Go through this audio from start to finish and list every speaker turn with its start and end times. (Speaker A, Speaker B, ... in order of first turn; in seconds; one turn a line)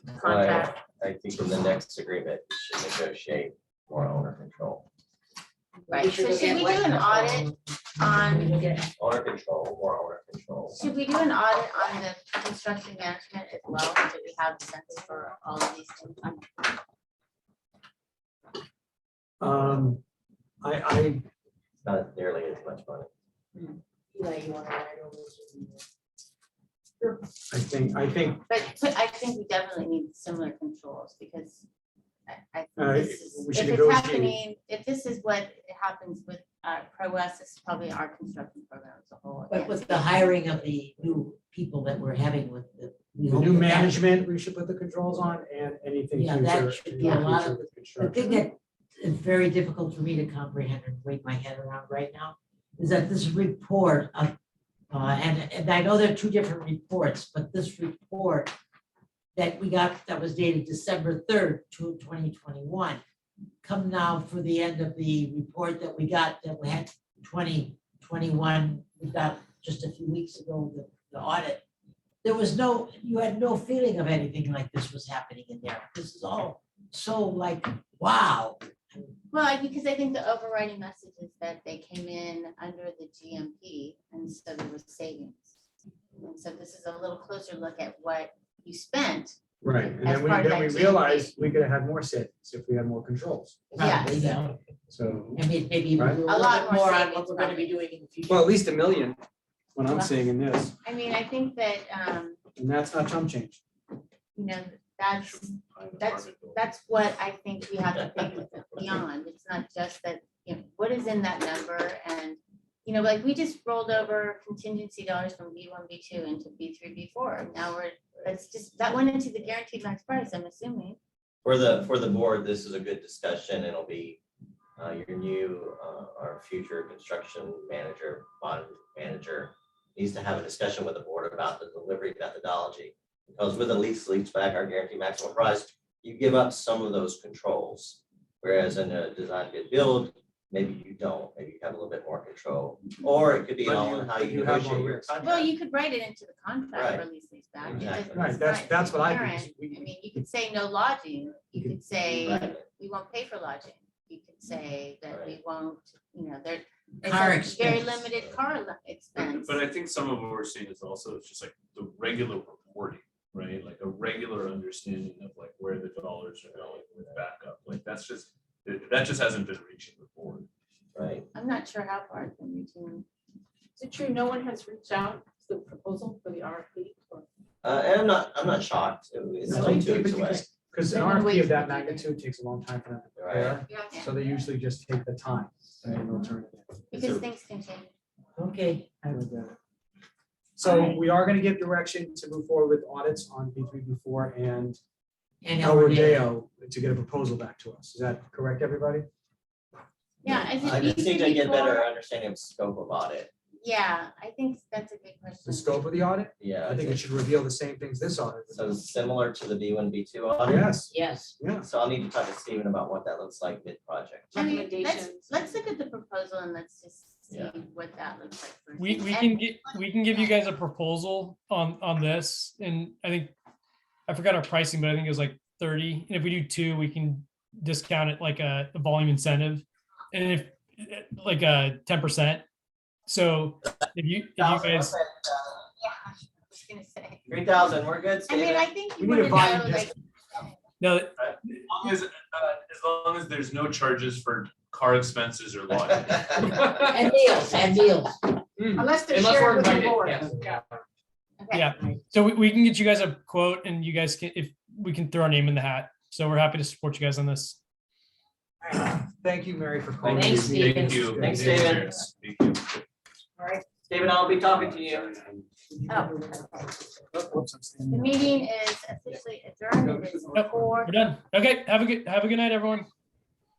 Speaker A: 0.1-0.8
Speaker B: 0.2-4.9
Speaker A: 5.9-8.8
Speaker C: 5.9-6.7
Speaker B: 9.0-10.8
Speaker A: 10.7-16.8
Speaker D: 19.4-20.0
Speaker D: 20.6-21.3
Speaker B: 21.8-23.1
Speaker E: 24.2-25.6
Speaker D: 27.5-28.4
Speaker A: 28.5-31.7
Speaker A: 32.3-40.4
Speaker D: 32.8-34.4
Speaker E: 39.5-44.0
Speaker D: 43.3-48.4
Speaker E: 46.2-54.4
Speaker E: 54.9-58.5
Speaker E: 59.4-63.0
Speaker E: 63.6-71.6
Speaker E: 72.2-79.1
Speaker A: 79.3-85.6
Speaker A: 86.2-91.3
Speaker D: 89.6-93.7
Speaker E: 93.7-94.6
Speaker A: 93.8-94.4
Speaker D: 94.9-95.5
Speaker E: 95.3-98.5
Speaker A: 96.3-97.8
Speaker D: 98.3-99.2
Speaker D: 99.7-100.7
Speaker A: 99.9-100.3
Speaker A: 100.8-102.4
Speaker D: 102.6-103.6
Speaker A: 104.3-121.0
Speaker F: 105.2-106.7
Speaker B: 108.0-108.9
Speaker B: 121.5-124.2
Speaker B: 124.8-145.5
Speaker D: 143.6-145.2
Speaker A: 145.2-159.6
Speaker B: 146.7-147.1
Speaker B: 147.7-148.3
Speaker D: 148.1-150.2
Speaker D: 151.6-152.4
Speaker B: 152.2-152.6
Speaker B: 155.1-155.4
Speaker E: 157.0-158.1
Speaker B: 157.7-158.3
Speaker F: 159.2-170.5
Speaker B: 166.5-166.8
Speaker B: 170.9-171.3
Speaker A: 171.3-173.1
Speaker C: 173.8-177.3
Speaker B: 177.6-180.4
Speaker D: 179.5-186.8
Speaker A: 180.9-182.0
Speaker B: 183.2-183.6
Speaker C: 183.7-183.9
Speaker A: 183.8-184.1
Speaker A: 186.9-187.9
Speaker F: 186.9-187.2
Speaker E: 188.4-189.0
Speaker D: 189.0-189.6
Speaker D: 190.6-194.8
Speaker E: 195.4-196.3
Speaker D: 195.6-199.1
Speaker A: 200.2-201.9
Speaker B: 200.2-203.3
Speaker A: 203.6-205.9
Speaker D: 205.4-208.8
Speaker B: 206.4-207.0
Speaker B: 208.5-210.7
Speaker D: 210.4-211.7
Speaker E: 210.9-211.3
Speaker B: 211.6-214.5
Speaker C: 214.3-215.5
Speaker A: 214.3-220.4
Speaker B: 217.3-217.6
Speaker G: 218.8-223.3
Speaker G: 224.1-232.4
Speaker G: 233.1-235.0
Speaker B: 234.4-235.3
Speaker A: 235.8-237.3
Speaker B: 237.3-238.7
Speaker A: 238.3-240.5
Speaker D: 239.0-239.9
Speaker G: 240.8-241.7
Speaker F: 241.2-247.0
Speaker E: 246.5-248.3
Speaker D: 248.6-250.3
Speaker C: 248.8-250.6
Speaker F: 249.1-250.6
Speaker A: 251.4-251.7
Speaker G: 251.5-257.6
Speaker D: 258.8-261.8
Speaker E: 260.1-261.0
Speaker F: 260.1-262.9
Speaker B: 261.2-261.9
Speaker B: 263.9-265.1
Speaker F: 264.0-265.4
Speaker A: 265.9-266.3
Speaker D: 267.1-268.2
Speaker A: 267.9-270.9
Speaker D: 269.7-270.9
Speaker G: 270.3-272.9